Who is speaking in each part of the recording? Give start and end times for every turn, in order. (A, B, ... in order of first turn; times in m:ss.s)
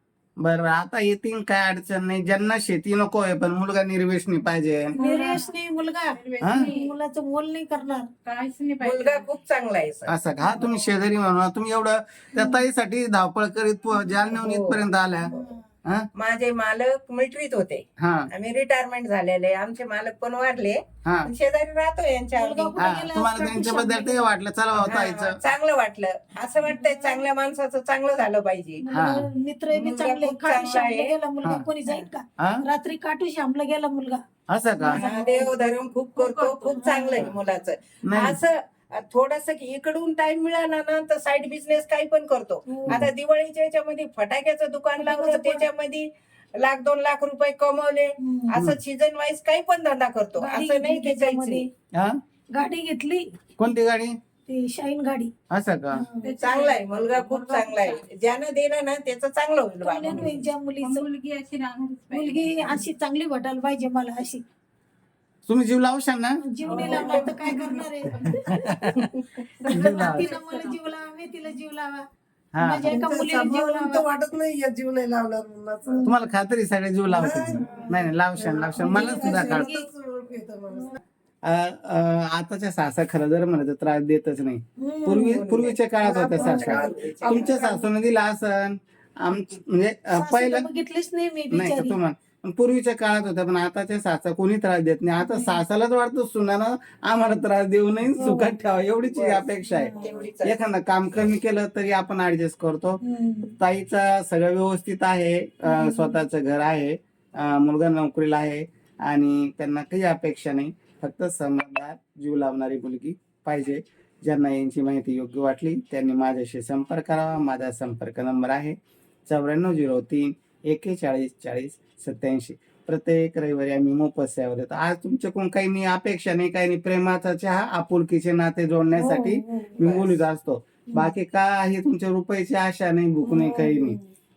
0:00.4-0:05.0 A
0:04.9-0:05.5 B
0:05.0-0:08.1 C
0:06.1-0:06.9 B
0:06.4-0:06.7 A
0:08.2-0:09.3 B
0:08.8-0:10.1 D
0:10.1-0:15.3 A
0:12.3-0:12.6 C
0:14.3-0:15.4 D
0:16.1-0:22.9 D
0:18.0-0:18.3 A
0:21.0-0:21.3 A
0:22.3-0:24.3 C
0:22.8-0:25.4 A
0:24.7-0:28.8 D
0:26.6-0:27.2 C
0:28.8-0:34.2 C
0:28.9-0:29.3 A
0:29.7-0:31.1 D
0:32.4-0:32.6 A
0:34.5-0:35.0 A
0:34.8-0:35.5 C
0:34.9-0:51.6 D
0:36.2-0:37.2 B
0:36.8-0:37.3 C
0:38.0-0:38.4 A
0:42.7-0:43.1 C
0:45.0-0:45.6 C
0:48.2-0:48.6 C
0:50.4-0:51.7 C
0:51.9-0:52.2 A
0:52.5-0:53.2 C
0:53.6-0:54.2 A
0:54.5-0:55.3 C
0:55.5-0:56.0 A
0:55.9-0:56.3 C
0:56.2-0:58.1 B
0:56.4-1:00.4 D
0:59.8-1:01.0 C
1:00.8-1:02.8 B
1:02.1-1:04.4 C
1:05.4-1:06.4 A
1:06.4-1:08.9 C
1:06.6-1:07.4 B
1:06.7-1:07.7 D
1:08.5-1:09.0 A
1:08.9-1:09.4 D
1:09.6-1:12.0 C
1:09.7-1:10.3 A
1:09.7-1:10.8 B
1:12.5-1:12.9 A
1:12.6-1:14.0 C
1:12.8-1:16.1 E
1:15.8-1:16.1 C
1:16.0-1:19.7 A
1:17.1-1:21.0 E
1:18.7-1:19.9 C
1:20.7-1:21.0 C
1:21.4-1:30.6 A
1:24.8-1:25.4 C
1:25.2-1:27.5 D
1:26.3-1:27.5 E
1:26.4-1:26.8 C
1:27.4-1:27.9 C
1:30.1-1:32.0 C
1:31.5-1:43.0 A
1:35.2-1:35.6 C
1:38.1-1:38.6 C
1:39.1-1:40.6 D
1:39.6-1:40.2 C
1:43.0-1:43.6 C
1:43.6-1:58.8 A
1:45.6-1:46.2 C
1:59.3-2:14.0 A
2:08.9-2:09.8 C
2:09.8-2:10.2 D
2:13.2-2:14.1 C